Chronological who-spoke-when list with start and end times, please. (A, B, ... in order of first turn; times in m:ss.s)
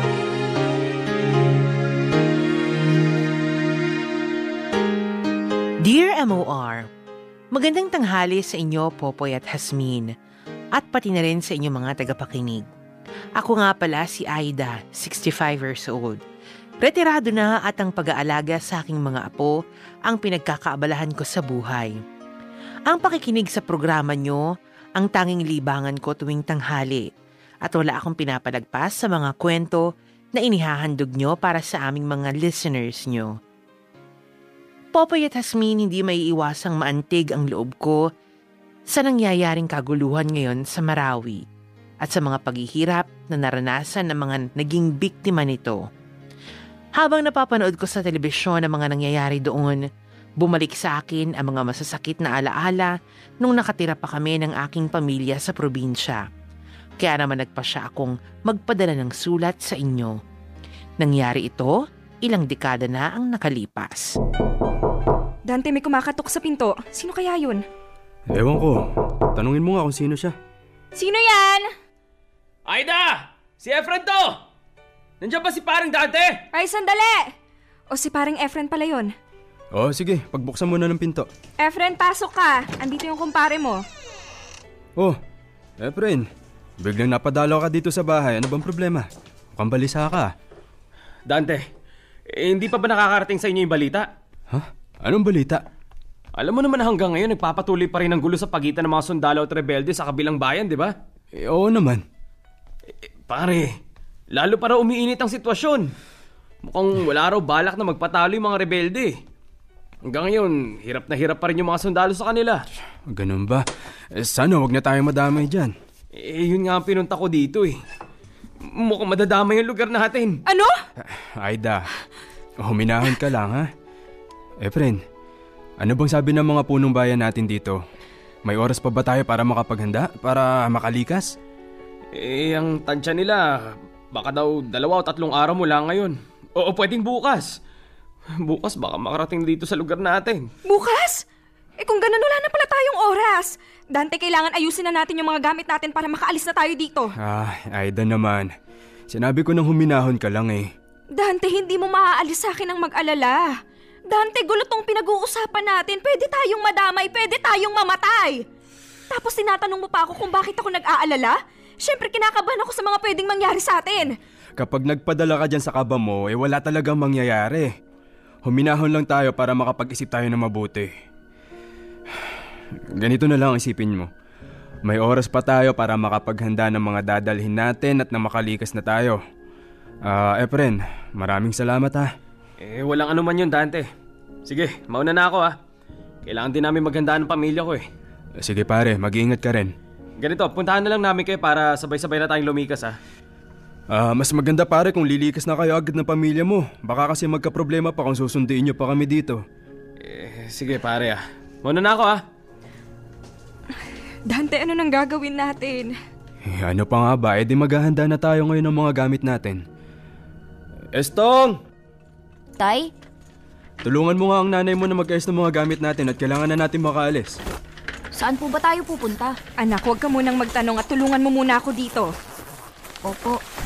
0:05.8-0:06.8 A
0:07.5-0:10.1 A
0:10.8-0:12.7 A
0:13.4-0:16.2 A
0:16.8-0:19.5 A
0:20.1-0:21.9 A
0:22.9-0:24.4 A
0:25.0-0:27.1 A
0:27.6-0:33.3 A
0:34.9-0:38.0 A
0:38.9-0:41.4 A
0:42.0-0:45.8 A
0:47.0-0:49.8 A
0:50.4-0:56.2 A
0:57.0-1:00.2 A
1:01.0-1:04.1 A
1:05.5-1:07.6 B
1:08.3-1:10.4 C
1:10.9-1:11.7 B
1:12.7-1:14.4 D
1:15.2-1:16.4 D
1:16.5-1:17.3 B
1:17.9-1:19.1 B
1:19.7-1:21.3 C
1:21.6-1:23.8 B
1:25.8-1:26.3 C
1:26.8-1:30.3 C
1:31.3-1:31.6 D
1:32.3-1:34.1 D
1:34.5-1:35.6 C
1:36.4-1:40.9 D
1:41.3-1:42.0 C
1:43.3-1:43.8 D
1:44.3-1:45.9 D
1:46.6-1:49.2 D
1:50.1-1:52.6 D
1:53.1-1:55.7 C
1:56.2-1:57.8 D
1:58.7-2:00.4 D
2:00.5-2:00.8 B
2:01.0-2:01.8 C
2:02.6-2:03.7 C
2:04.6-2:05.0 C
2:05.8-2:07.8 C
2:08.4-2:11.3 C
2:12.1-2:13.5 D
2:14.1-2:17.5 D
2:18.4-2:20.5 D
2:20.6-2:21.2 B
2:21.8-2:27.1 B
2:27.2-2:28.5 C
2:29.1-2:30.7 C
2:31.2-2:33.5 B
2:34.1-2:38.4 B
2:39.1-2:44.1 B
2:44.6-2:47.7 C
2:48.4-2:50.9 C
2:53.0-2:54.1 C
2:54.8-2:59.2 C
3:00.0-3:02.1 C
3:02.6-3:03.9 D
3:04.4-3:05.5 D
3:06.2-3:07.8 D
3:08.4-3:09.7 C
3:10.2-3:13.0 D
3:13.9-3:19.4 C
3:20.0-3:22.2 D
3:24.3-3:25.9 B
3:26.4-3:29.6 C
3:30.9-3:31.6 C
3:32.6-3:32.9 E
3:33.8-3:37.4 C
3:38.1-3:39.4 E
3:39.6-3:42.1 B
3:43.0-3:43.4 E